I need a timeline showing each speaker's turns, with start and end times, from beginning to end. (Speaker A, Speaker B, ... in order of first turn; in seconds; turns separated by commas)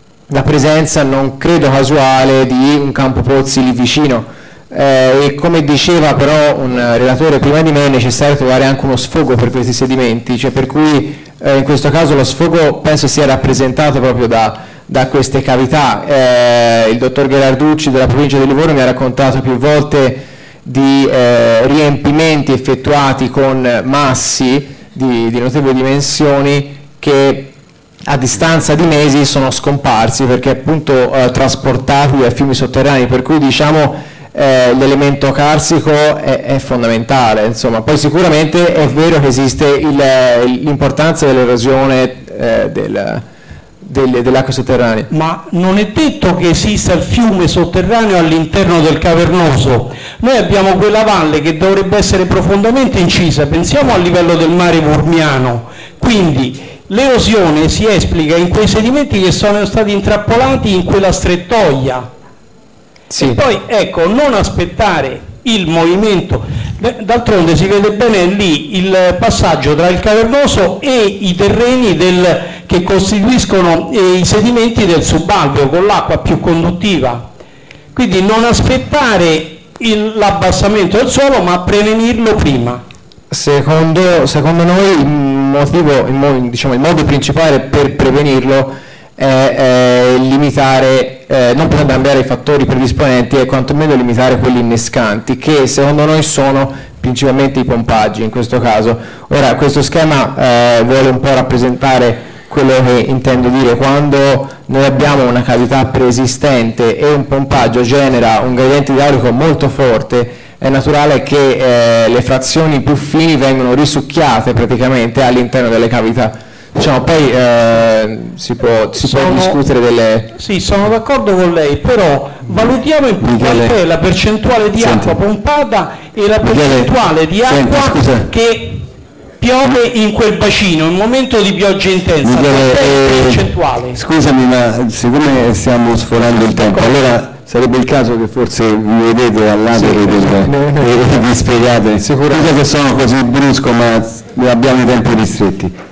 Speaker A: 0.3-27.6, Speaker A: 28.1-43.2, Speaker A: 43.8-45.1, Speaker B: 45.1-62.1, Speaker A: 63.1-63.4, Speaker B: 63.2-77.3, Speaker B: 78.0-82.8, Speaker A: 83.3-120.3, Speaker B: 119.0-119.6, Speaker B: 120.3-128.8, Speaker C: 123.2-123.8, Speaker C: 124.8-125.2, Speaker C: 126.5-126.9, Speaker C: 127.5-128.3, Speaker B: 129.4-134.0, Speaker C: 132.2-145.8, Speaker A: 139.7-141.2, Speaker A: 142.0-142.5